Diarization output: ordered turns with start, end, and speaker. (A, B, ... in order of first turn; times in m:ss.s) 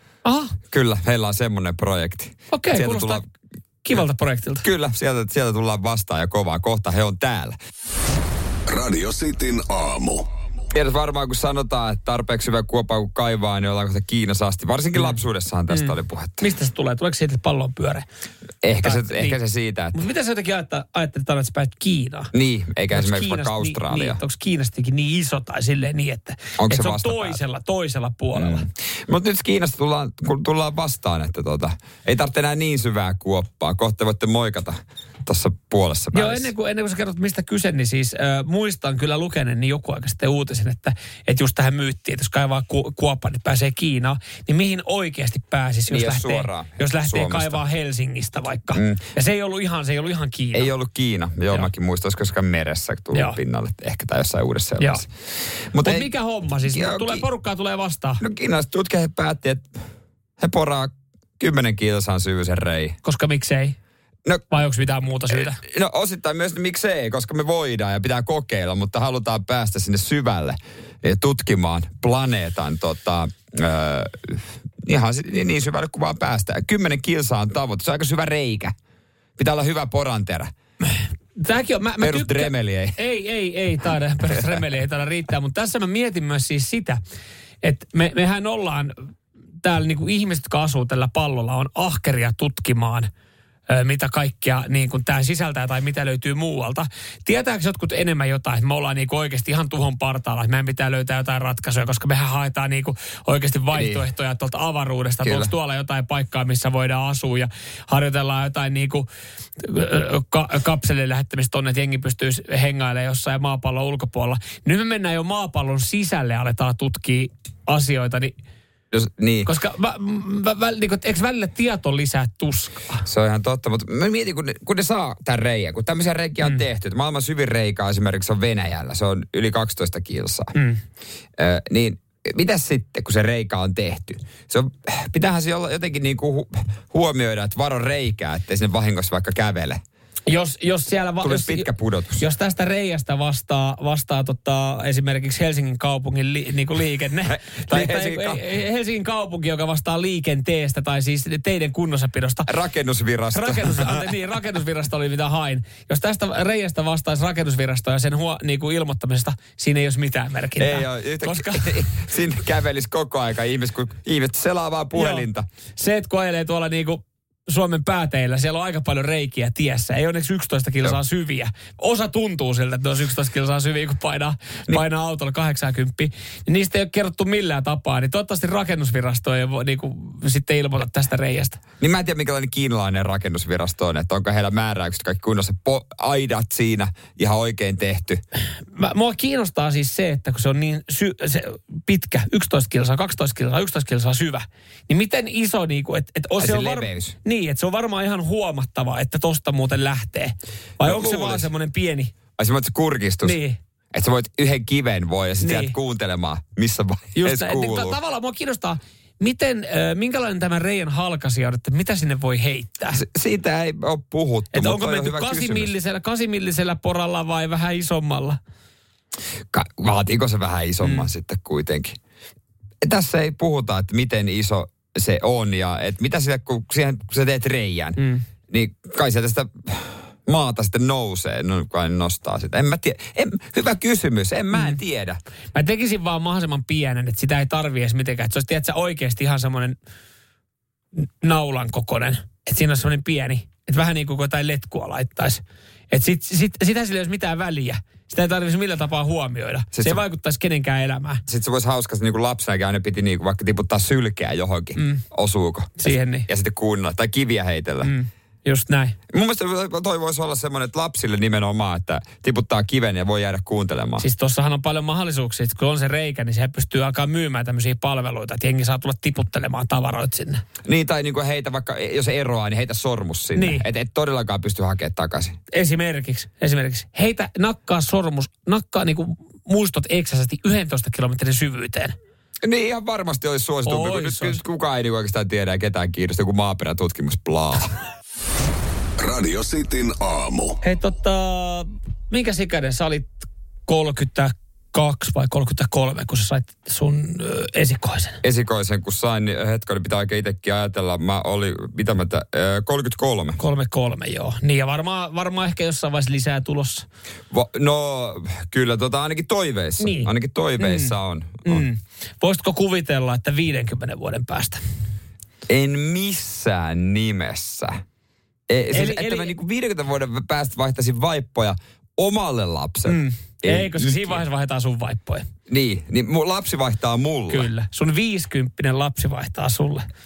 0:00.2-0:00.6 A
0:00.7-0:03.3 B
0:02.5-0:03.2 A
0:03.8-0:04.6 A
0:04.6-0:07.6 B
0:08.7-0:10.2 C
0:10.7-0:16.5 B
0:15.7-0:18.0 A
0:18.6-0:20.0 B
0:18.8-0:19.4 A
0:19.9-0:22.3 A
0:22.3-0:24.2 B
0:22.9-0:28.6 A
0:26.6-0:27.4 B
0:28.4-0:36.5 B
0:36.1-0:50.7 A
0:45.9-0:47.6 B
0:48.7-0:49.1 B
0:50.5-0:55.1 B
0:54.8-0:55.0 A
0:55.7-0:56.1 B
0:55.8-0:58.2 A
0:56.7-0:57.3 B
0:58.2-0:59.8 B
1:00.4-1:03.0 B
1:03.0-1:03.8 A
1:04.5-1:05.6 A
1:05.3-1:18.8 B
1:19.4-1:20.5 B
1:20.8-1:27.0 A
1:22.0-1:23.0 B
1:27.6-1:29.1 A
1:29.6-1:33.1 A
1:33.7-1:49.1 A
1:43.7-1:44.0 B
1:45.2-1:45.5 B
1:49.6-1:58.4 A
1:58.9-1:59.5 B
1:59.5-2:03.1 A
2:03.1-2:10.5 B
2:10.6-2:10.8 A
2:11.4-2:19.8 B
2:20.3-2:21.7 A
2:21.2-2:22.2 B
2:22.2-2:32.5 A
2:27.3-2:28.5 B
2:32.5-2:34.1 B
2:33.3-2:41.7 A
2:40.6-2:45.5 B
2:44.9-2:45.2 A
2:45.8-3:01.6 A
3:01.8-3:08.2 B
3:08.7-3:22.1 A
3:16.4-3:17.2 B
3:20.8-3:21.5 B
3:22.4-3:23.4 B
3:23.2-3:23.6 A
3:23.9-3:28.0 B
3:25.4-3:25.8 A
3:27.2-3:33.0 A
3:32.9-3:35.7 B
3:34.5-3:38.4 A
3:39.5-3:42.0 B
3:40.8-3:41.1 A
3:42.8-3:48.0 B
3:48.0-3:48.2 A
3:48.5-3:55.2 B
3:55.5-3:59.8 A
4:01.0-4:11.2 A
4:09.7-4:10.0 B
4:11.3-4:17.9 B
4:14.8-4:15.0 A
4:15.8-4:16.3 A
4:17.8-4:19.0 A
4:19.1-4:24.0 B
4:24.0-4:30.4 A
4:30.6-4:35.4 B
4:33.4-4:33.7 A
4:35.5-4:42.0 A
4:42.4-4:47.7 B
4:43.7-4:44.4 A
4:49.0-4:50.6 C
4:50.6-4:58.2 A
4:58.2-5:03.4 B
5:03.4-5:06.8 A
5:07.3-5:11.7 B
5:09.8-5:14.6 A
5:15.5-5:17.8 B
5:18.5-5:24.2 B
5:18.7-5:19.3 A
5:22.9-5:25.3 A
5:25.5-5:27.5 B
5:27.3-5:29.9 A